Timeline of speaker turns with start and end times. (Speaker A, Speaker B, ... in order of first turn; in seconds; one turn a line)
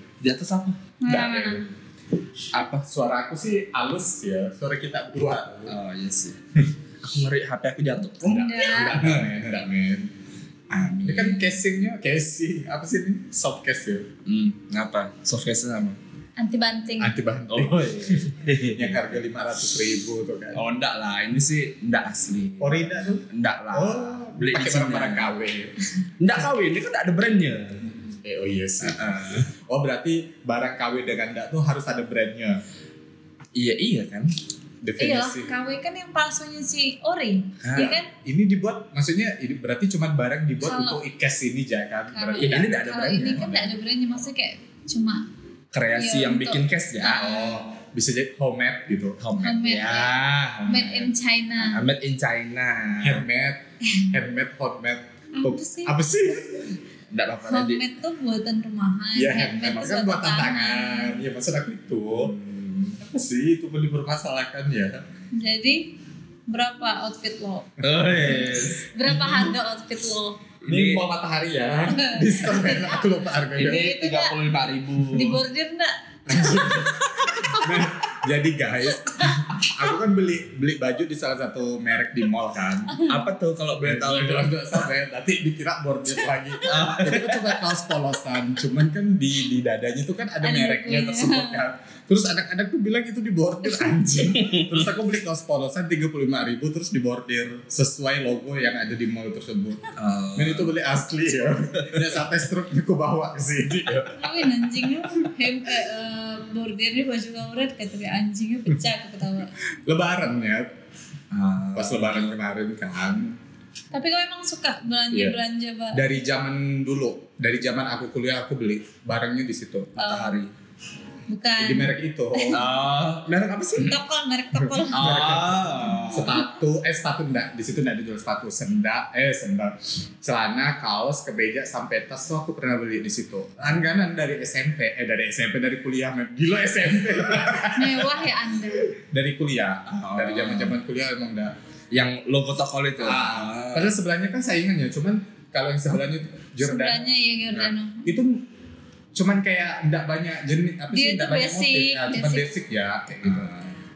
Speaker A: 0.2-0.8
Speaker B: 1.0-1.7
Speaker C: 1.1-1.7
Speaker A: 2.5-2.8
Speaker C: 2.8-5.8
Speaker A: 5.7-6.4
Speaker A: 7.0-9.5
Speaker C: 8.2-10.1
Speaker B: 8.3-9.0
Speaker A: 10.7-11.6
Speaker C: 11.0-14.1
Speaker A: 14.2-16.0
Speaker B: 16.4-17.1
Speaker C: 17.0-20.6
Speaker A: 17.5-19.1
Speaker A: 20.5-25.3
Speaker C: 22.6-25.7
Speaker A: 26.2-27.9
Speaker C: 28.2-32.6
Speaker A: 28.8-29.5
Speaker A: 33.5-34.3
Speaker C: 34.8-35.5
Speaker B: 35.0-38.1
Speaker A: 37.6-37.9
Speaker C: 37.8-42.8
Speaker B: 40.6-41.0
Speaker B: 42.1-45.2
Speaker A: 42.3-43.8
Speaker A: 45.7-47.2
Speaker B: 45.9-47.6
Speaker C: 47.2-49.2
Speaker A: 49.2-51.1
Speaker B: 49.4-51.8
Speaker A: 51.6-53.2
Speaker C: 53.0-55.0
Speaker B: 55.3-56.0
Speaker C: 55.8-56.7
Speaker A: 57.1-57.8
Speaker B: 57.5-61.2
Speaker C: 59.1-65.0
Speaker A: 62.4-62.7
Speaker B: 65.3-65.9
Speaker B: 66.5-70.4
Speaker A: 67.8-69.5
Speaker C: 67.8-68.5
Speaker A: 70.6-71.1
Speaker C: 70.6-73.9
Speaker B: 71.9-73.0
Speaker A: 73.5-75.4
Speaker B: 73.6-74.4
Speaker B: 75.1-77.9
Speaker C: 76.3-83.0
Speaker B: 78.8-79.8
Speaker B: 82.9-83.2
Speaker A: 83.0-84.8
Speaker C: 83.8-104.5
Speaker B: 86.5-86.9
Speaker A: 86.7-87.6
Speaker B: 90.4-91.6
Speaker A: 94.3-94.9
Speaker A: 100.0-100.8
Speaker A: 101.5-102.1
Speaker B: 104.1-109.5
Speaker C: 109.8-110.7
Speaker A: 111.3-112.3
Speaker C: 111.8-113.4
Speaker B: 113.9-116.0
Speaker C: 115.1-115.4
Speaker C: 115.9-120.0
Speaker A: 120.0-120.5
Speaker B: 120.0-120.4
Speaker B: 121.3-122.6
Speaker C: 121.6-122.7
Speaker A: 122.5-124.0
Speaker B: 123.8-125.0
Speaker C: 124.7-138.3
Speaker A: 124.9-126.4
Speaker B: 137.7-138.9
Speaker C: 138.9-141.5
Speaker A: 139.9-140.7
Speaker A: 141.9-144.0
Speaker C: 143.0-148.4
Speaker B: 146.6-148.2
Speaker C: 149.1-153.5
Speaker B: 150.9-152.5
Speaker A: 153.1-153.7